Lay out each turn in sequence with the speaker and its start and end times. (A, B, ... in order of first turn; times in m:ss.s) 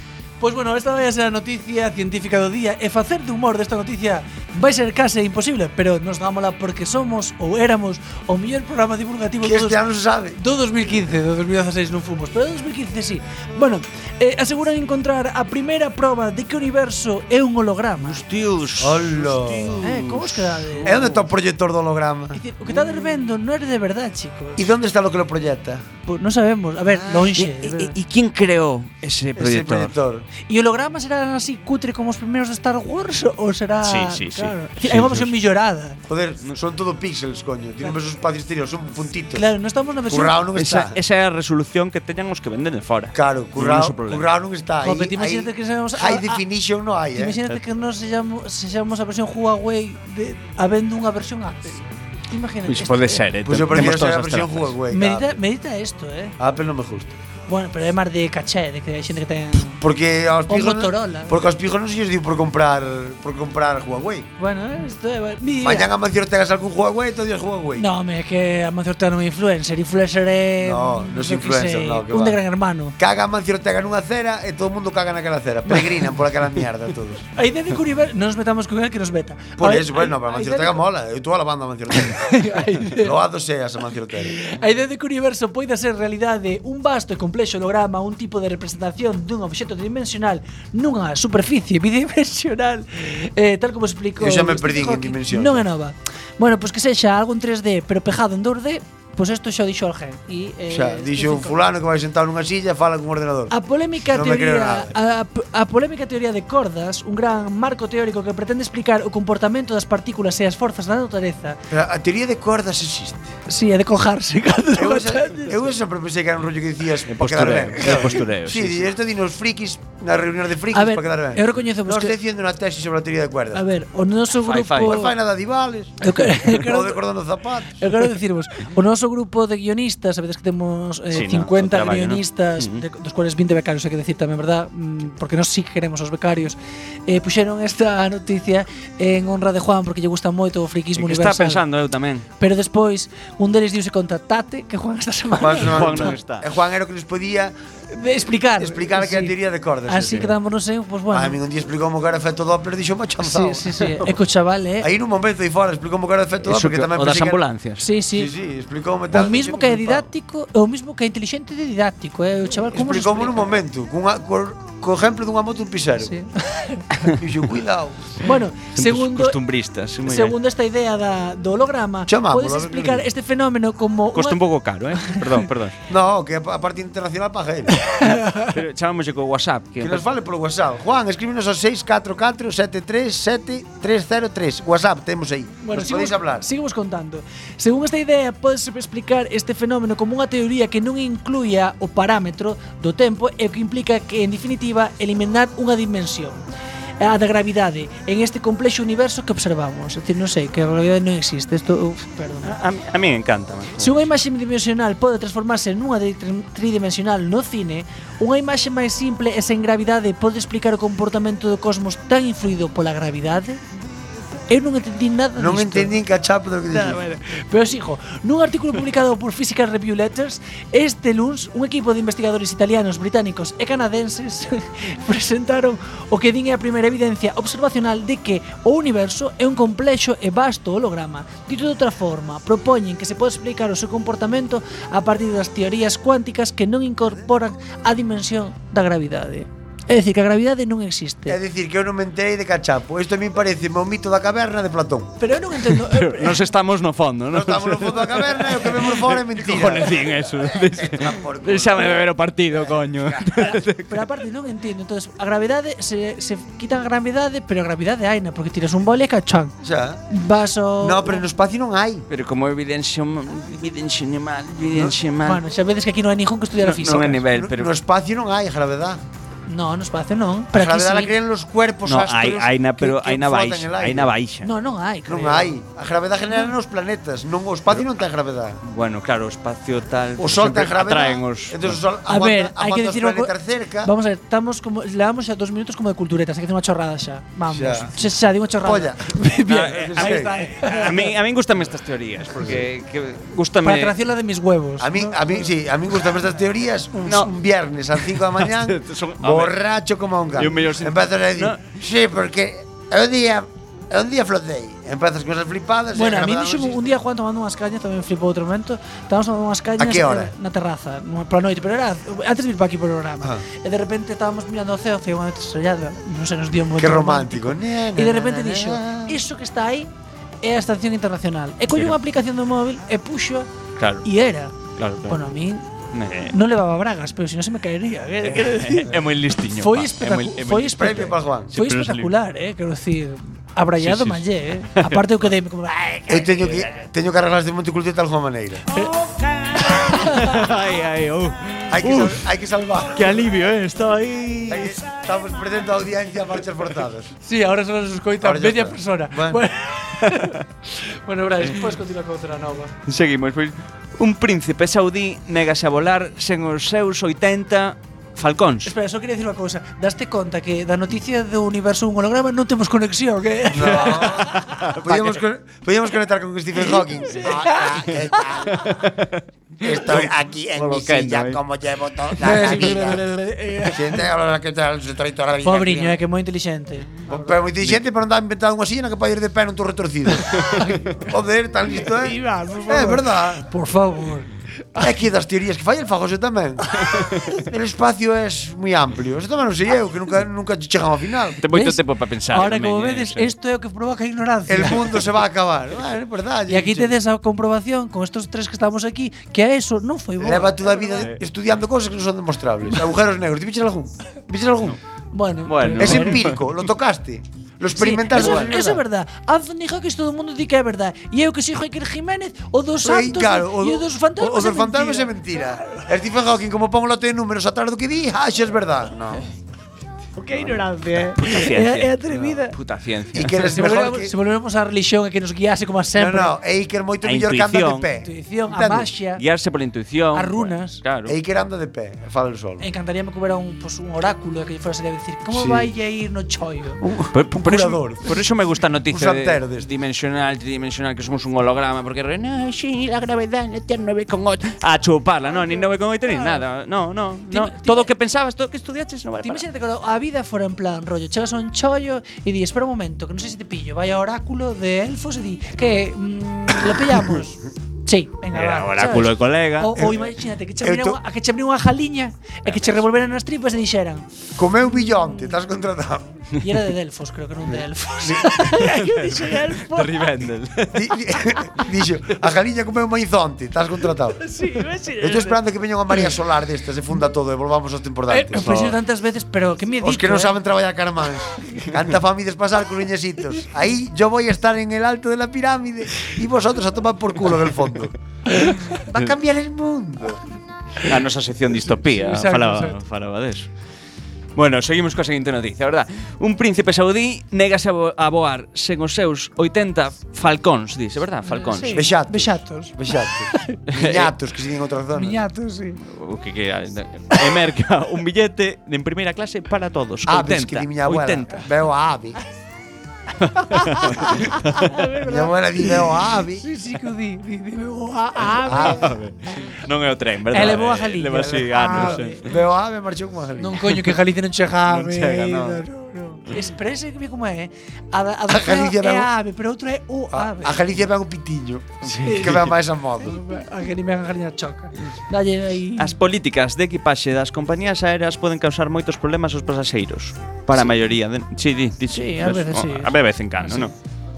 0:00.4-0:09.8 A
0:09.4-0:10.4 B
0:10.4-0:18.2 A
0:18.0-0:21.3 C
0:18.8-0:19.8 B
0:19.8-0:21.0 A
0:20.8-0:22.4 B
0:22.3-0:24.7 A
0:24.6-0:25.9 B
0:26.0-0:27.9 A
0:27.1-0:29.9 C
0:29.4-0:30.3 B
0:30.5-0:36.0 A
0:33.8-0:35.3 C
0:36.1-0:39.4 B
0:39.4-0:40.4 A
0:40.1-0:41.0 B
0:40.6-0:44.2 C
0:43.1-0:47.4 B
0:44.8-0:46.4 A
0:47.1-0:53.2 A
0:52.7-0:54.7 C
0:53.4-0:55.4 B
0:54.9-0:56.3 A
0:56.4-0:57.2 B
0:57.5-0:59.8 A
0:59.8-1:04.3 B
1:00.5-1:01.3 A
1:04.4-1:05.9 A
1:05.6-1:07.9 B
1:07.8-1:13.0 A
1:10.6-1:12.4 B
1:13.0-1:17.3 B
1:17.4-1:20.8 A
1:19.6-1:22.4 B
1:22.2-1:23.1 A
1:23.0-1:24.4 B
1:24.3-1:41.6 A
1:34.2-1:35.7 B
1:40.7-1:43.5 B
1:43.5-1:51.6 A
1:44.0-1:45.0 B
1:51.7-1:53.3 B
1:53.5-1:55.6 A
1:54.8-2:03.6 B
1:57.1-1:58.9 C
2:00.7-2:02.2 A
2:03.5-2:05.1 A
2:04.4-2:05.0 C
2:04.8-2:07.9 B
2:06.0-2:07.0 A
2:07.8-2:21.6 A
2:11.1-2:12.8 C
2:21.0-2:22.2 C
2:22.4-2:26.1 A
2:25.4-2:27.6 B
2:25.6-2:26.5 C
2:27.9-2:29.4 A
2:28.6-2:30.3 B
2:29.9-2:31.4 A
2:31.1-2:34.0 B
2:33.2-2:34.9 A
2:34.8-2:37.4 B
2:36.4-2:37.8 C
2:37.8-2:38.3 A
2:38.1-2:40.1 B
2:39.1-2:43.5 A
2:42.6-2:46.1 B
2:46.0-2:47.0 A
2:47.1-2:48.2 B
2:48.2-2:49.4 A
2:48.8-2:50.4 C
2:50.0-2:54.4 A
2:52.1-2:53.1 B
2:54.1-2:55.8 C
2:55.0-2:55.3 A
2:55.9-2:57.8 B
2:57.8-2:58.6 A
2:58.5-3:00.0 C
2:59.8-3:06.5 B
3:05.6-3:16.4 A
3:17.0-3:22.6 A
3:22.4-3:24.1 C
3:23.8-3:33.6 A
3:34.5-3:36.0 A
3:35.4-3:37.0 B
3:36.7-4:01.4 A
4:01.3-4:05.2 B
4:05.2-4:06.4 A
4:05.7-4:14.1 C
4:07.3-4:13.2 B
4:13.9-4:19.6 A
4:19.6-4:20.0 B
4:20.1-4:21.2 A
4:20.8-4:22.1 B
4:22.1-4:25.4 C
4:25.2-4:27.2 A
4:26.6-4:27.7 C
4:27.3-4:29.0 B
4:29.5-4:31.1 A
4:30.5-4:34.1 B
4:31.9-4:34.5 C
4:34.4-4:35.5 A
4:35.1-4:38.6 B
4:38.6-4:41.8 C
4:40.2-4:43.9 B
4:42.1-4:51.1 A
4:47.5-4:50.3 B
4:49.5-4:54.0 C
4:52.3-4:52.7 B
4:53.6-4:55.4 A
4:54.8-5:07.0 B
4:57.1-4:57.3 C
4:58.2-4:59.6 C
5:00.4-5:01.7 C
5:05.9-5:19.9 A
5:09.8-5:10.3 B
5:16.8-5:19.2 B
5:20.4-5:23.5 A
5:23.8-5:24.0 C
5:24.0-5:24.6 A
5:24.8-5:25.2 C
5:25.1-5:25.6 A
5:25.9-5:26.4 C
5:26.3-5:29.0 A
5:28.2-5:32.1 C
5:29.5-5:36.5 A
5:30.8-5:31.5 B
5:33.8-5:35.3 C
5:36.1-5:38.6 B
5:38.7-5:40.4 A
5:39.4-5:42.2 C
5:41.7-5:43.2 B
5:42.9-5:44.8 C
5:44.5-5:47.1 B
5:47.2-5:52.7 A
5:48.2-5:49.4 B
5:50.0-5:50.4 C
5:52.9-5:58.7 C
5:58.6-6:04.6 A
6:03.5-6:08.6 B
6:04.4-6:05.2 C
6:07.0-6:08.6 A
6:08.5-6:11.4 C
6:09.6-6:13.0 B
6:12.2-6:14.0 A
6:12.3-6:13.0 C
6:13.6-6:16.0 B
6:15.4-6:17.3 A
6:17.1-6:20.4 B
6:20.4-6:20.9 A
6:21.0-6:23.4 B
6:21.8-6:24.8 A
6:24.8-6:26.8 B
6:27.4-6:31.4 B
6:31.4-6:33.3 C
6:31.5-6:35.0 A
6:34.5-6:37.0 B
6:36.5-6:41.0 A
6:40.2-6:44.8 B
6:45.1-6:46.2 A
6:45.5-6:46.4 C
6:45.8-6:48.8 B
6:47.8-6:55.8 A
6:52.8-6:59.2 B
7:00.2-7:02.6 A
7:01.2-7:03.6 C
7:03.1-7:04.1 B
7:03.5-7:06.3 A
7:06.0-7:08.9 B
7:07.0-7:07.9 C
7:08.0-7:09.2 A
7:09.1-7:11.1 C
7:10.1-7:10.8 A
7:11.1-7:12.6 B
7:12.6-7:16.8 A
7:15.3-7:15.7 B
7:16.8-7:18.2 B
7:17.1-7:29.4 C
7:18.9-7:19.7 B
7:25.4-7:26.4 A
7:27.3-7:27.9 A
7:29.2-7:44.1 A
7:38.3-7:39.7 C
7:39.7-7:41.0 B
7:42.5-7:42.8 C
7:44.4-7:46.2 B
7:44.8-7:45.3 A
7:46.4-7:50.0 A
7:48.0-7:48.3 B
7:48.6-7:50.9 C
7:50.7-7:54.2 B
7:54.2-7:55.4 A
7:55.0-7:58.7 B
7:58.1-8:00.4 A
7:59.8-8:07.9 B
8:08.3-8:08.7 A
8:08.8-8:10.2 B
8:10.8-8:13.5 C
8:11.8-8:12.8 A
8:14.4-8:21.8 C
8:21.3-8:22.7 A
8:21.8-8:25.2 B
8:23.7-8:24.1 C
8:25.0-8:25.8 A
8:25.8-8:31.4 C
8:30.1-8:32.2 B
8:33.3-8:34.8 C
8:33.6-8:35.8 A
8:35.1-8:36.4 B
8:36.4-8:38.9 A
8:38.4-8:38.9 B
8:38.4-8:42.3 C
8:40.3-8:42.2 A
8:41.7-8:43.7 B
8:43.4-8:50.6 A
8:44.7-8:45.6 C
8:48.3-8:49.1 B
8:50.1-8:53.2 B
8:51.9-8:52.5 C
8:52.0-8:52.5 A
8:53.0-8:56.0 A
8:55.8-9:03.7 C
9:01.9-9:03.7 A